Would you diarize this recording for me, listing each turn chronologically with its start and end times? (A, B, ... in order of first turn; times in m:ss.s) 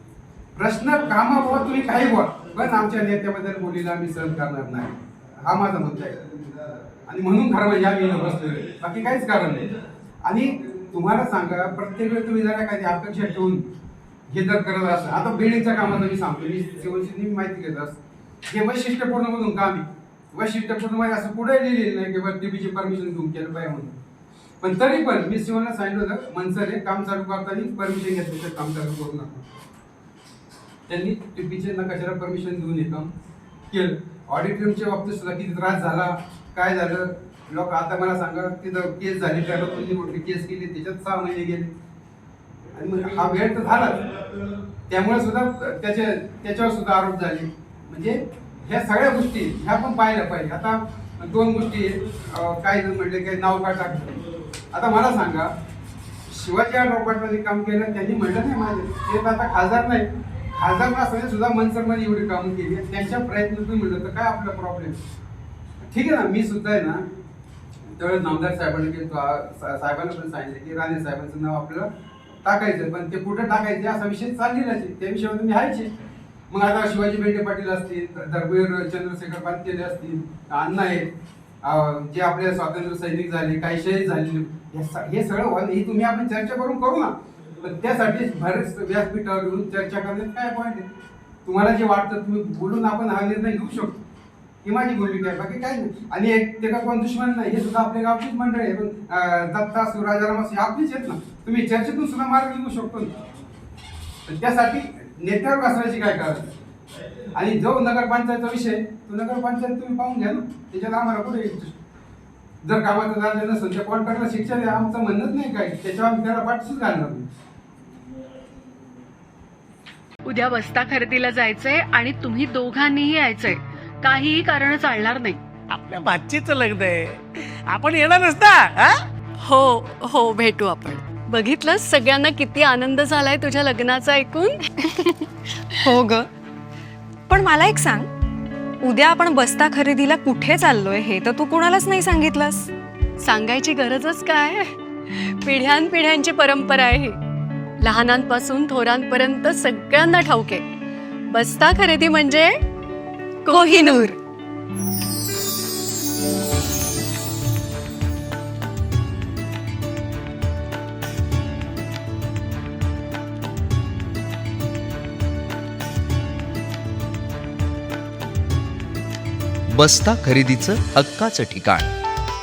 0:00.6-0:06.3 A
0:07.1-0:09.7 A
0:10.2-0:13.6 A
0:14.3-0:24.0 A
0:24.6-0:29.4 A
0:30.9-0:33.1 A
0:33.7-0:41.7 A
0:42.7-0:44.0 A
0:44.9-0:55.5 A
0:56.3-1:05.0 A
1:05.8-1:07.0 A
1:08.0-1:11.9 A
1:12.4-1:15.9 A
1:16.5-1:21.1 A
1:21.6-1:30.9 A
1:31.4-1:34.0 A
1:34.6-1:43.2 A
1:44.3-1:46.5 A
1:47.4-1:51.7 A
1:52.6-1:57.2 A
2:00.3-2:05.4 B
2:05.7-2:09.1 C
2:09.4-2:14.7 B
2:15.8-2:16.3 D
2:17.3-2:18.1 D
2:18.8-2:22.7 D
2:23.2-2:27.2 B
2:27.8-2:30.6 B
2:31.3-2:32.6 B
2:33.5-2:34.2 B
2:33.5-2:34.1 D
2:49.7-2:51.9 E